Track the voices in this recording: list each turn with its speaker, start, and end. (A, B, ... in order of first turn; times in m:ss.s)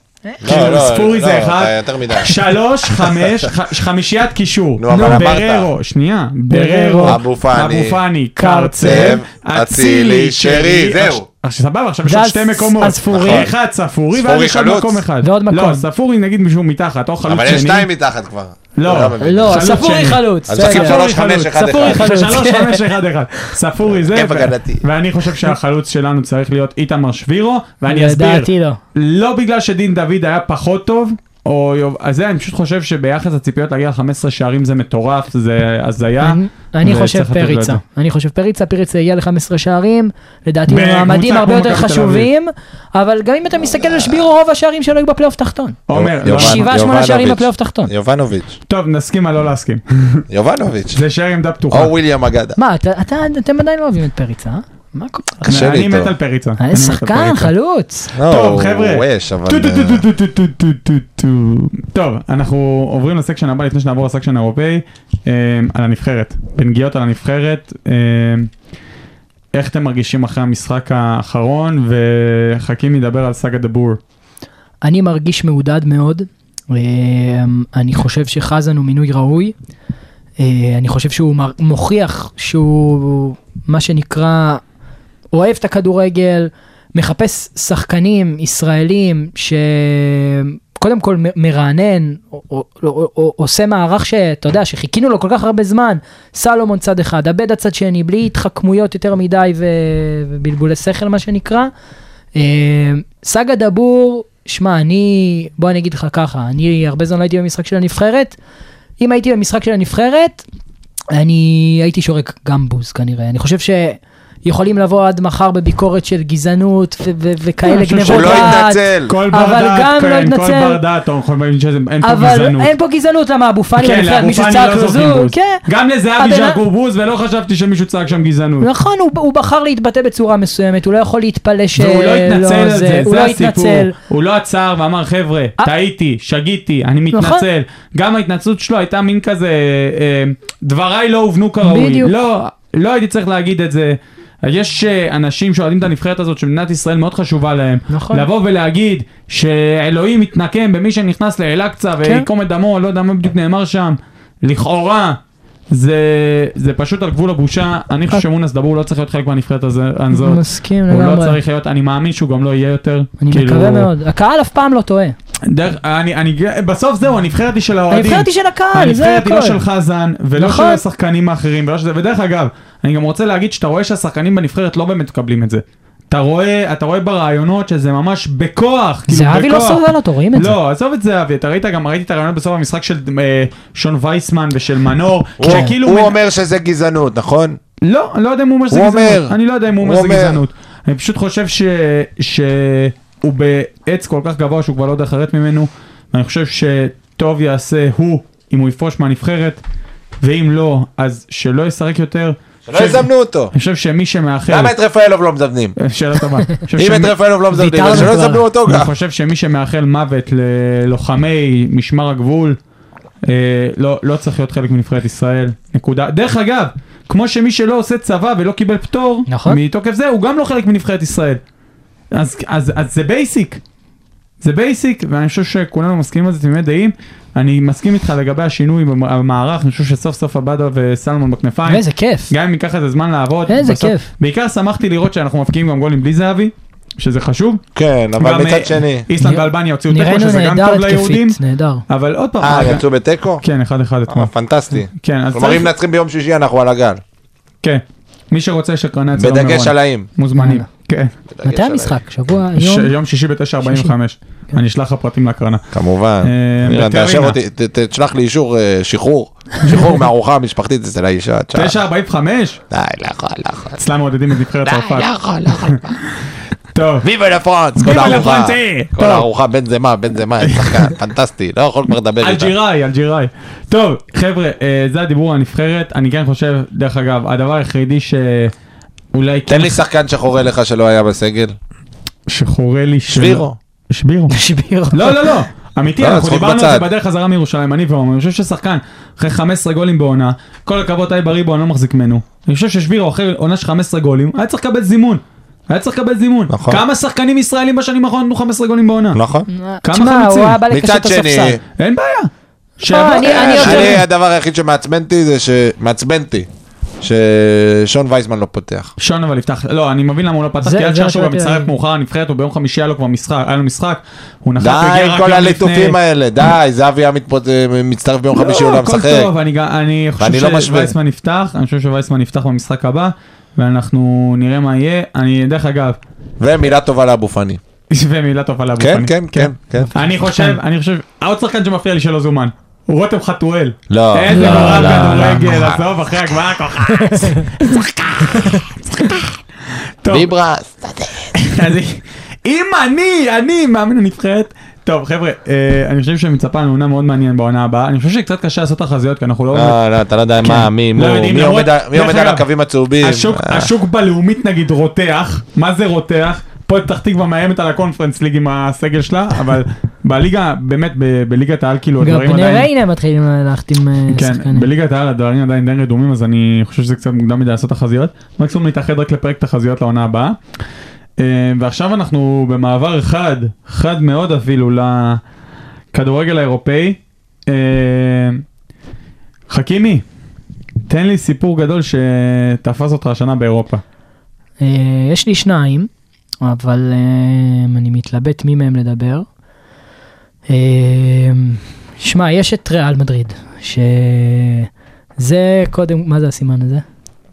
0:00.2-0:00.5 A
0:00.4-0:02.3 B
0:00.4-0:17.9 C
0:04.8-0:05.7 B
0:04.9-0:05.3 A
0:06.5-0:07.2 A
0:07.0-0:08.0 B
0:08.4-0:09.2 A
0:08.8-0:11.2 B
0:12.0-0:13.5 A
0:13.1-0:13.5 B
0:14.1-0:15.0 B
0:15.2-0:15.8 A
0:17.2-0:19.8 B
0:18.8-0:37.8 C
0:19.2-0:21.0 A
0:20.5-0:22.1 B
0:21.6-0:22.8 A
0:23.9-0:24.8 B
0:27.8-0:28.8 A
0:36.2-0:47.9 A
0:40.7-0:42.3 C
0:43.6-0:44.2 B
0:45.9-0:46.7 C
0:45.9-0:48.6 B
0:48.7-0:50.2 C
0:50.3-0:51.0 B
0:50.9-0:51.9 C
0:51.7-0:52.6 B
0:52.6-0:55.5 A
0:55.4-0:57.5 C
0:55.4-0:56.1 B
0:56.6-0:58.1 A
0:58.1-1:00.0 B
0:58.2-1:08.5 C
1:09.5-1:14.0 C
1:14.8-1:19.5 A
1:20.4-1:24.6 A
1:25.3-1:41.7 A
1:42.3-1:48.4 A
1:49.0-1:50.4 A
1:51.1-2:00.8 A
1:57.6-2:02.7 C
1:58.0-1:59.1 B
2:02.0-2:05.6 A
2:03.8-2:08.7 C
2:06.2-2:06.6 A
2:08.6-2:13.9 A
2:11.8-2:35.2 C
2:17.1-2:17.4 A
2:21.6-2:22.1 A
2:27.9-2:28.3 A
2:35.7-2:43.9 C
2:40.1-2:41.4 A
2:43.2-2:45.1 A
2:45.5-2:59.8 C
2:47.9-2:49.6 A
2:50.4-2:50.8 A
2:59.1-3:00.6 A
3:00.3-3:06.2 C
3:05.4-3:07.6 B
3:07.8-3:19.6 C
3:08.7-3:10.4 B
3:20.2-3:24.7 C
3:22.6-3:23.5 B
3:24.5-3:25.8 B
3:25.8-3:27.2 C
3:26.8-3:28.9 B
3:27.5-3:28.4 A
3:27.8-3:28.1 C
3:28.6-3:32.6 C
3:33.2-3:41.4 C
3:39.3-3:39.6 A
3:42.1-3:43.6 C
3:44.4-3:57.6 C
3:51.6-3:52.3 A
3:53.5-3:54.1 A
3:57.7-3:59.0 B
3:58.2-4:01.4 C
3:59.2-4:01.8 A
4:01.9-4:02.8 C
4:02.4-4:03.4 B
4:03.4-4:04.3 C
4:04.1-4:07.0 B
4:04.9-4:05.7 C
4:07.6-4:11.1 C
4:09.2-4:10.1 B
4:10.3-4:10.6 A
4:11.3-4:12.0 B
4:11.4-4:12.9 A
4:12.6-4:15.7 C
4:13.6-4:13.9 A
4:15.7-4:21.8 B
4:16.2-4:17.4 C
4:21.5-4:22.6 C
4:22.7-4:23.8 B
4:23.8-4:25.8 C
4:24.6-4:26.0 B
4:26.7-4:27.0 C
4:27.0-4:32.5 B
4:27.8-4:29.3 C
4:30.4-4:30.9 C
4:32.2-4:38.5 C
4:39.1-4:39.8 C
4:39.5-4:41.5 B
4:42.3-4:44.3 C
4:43.1-4:43.6 B
4:44.3-4:45.4 A
4:44.9-4:59.2 C
4:46.0-4:46.8 B
4:56.5-4:56.8 B
4:59.1-4:59.5 B
4:59.5-5:01.6 A
4:59.8-5:00.6 C
5:00.7-5:01.6 B
5:01.8-5:04.0 C
5:02.8-5:04.0 A
5:03.2-5:06.5 B
5:07.0-5:08.9 B
5:09.0-5:16.0 C
5:10.6-5:11.7 A
5:14.6-5:19.3 B
5:18.3-5:26.0 C
5:20.2-5:20.9 B
5:26.4-5:27.6 B
5:27.9-5:39.3 C
5:28.8-5:29.9 B
5:30.3-5:30.6 A
5:33.9-5:36.0 B
5:34.3-5:35.4 A
5:37.1-5:37.5 A
5:40.0-5:40.3 C
5:40.1-5:41.4 B
5:41.4-5:49.8 C
5:49.5-5:53.7 B
5:50.4-5:52.4 C
5:53.0-6:02.7 C
6:02.0-6:04.7 A
6:04.1-6:10.4 C
6:11.2-6:15.2 C
6:15.9-6:18.4 C
6:19.5-6:20.0 C
6:20.9-6:23.8 C
6:24.6-6:25.9 A
6:26.4-6:29.2 A
6:30.5-6:36.8 A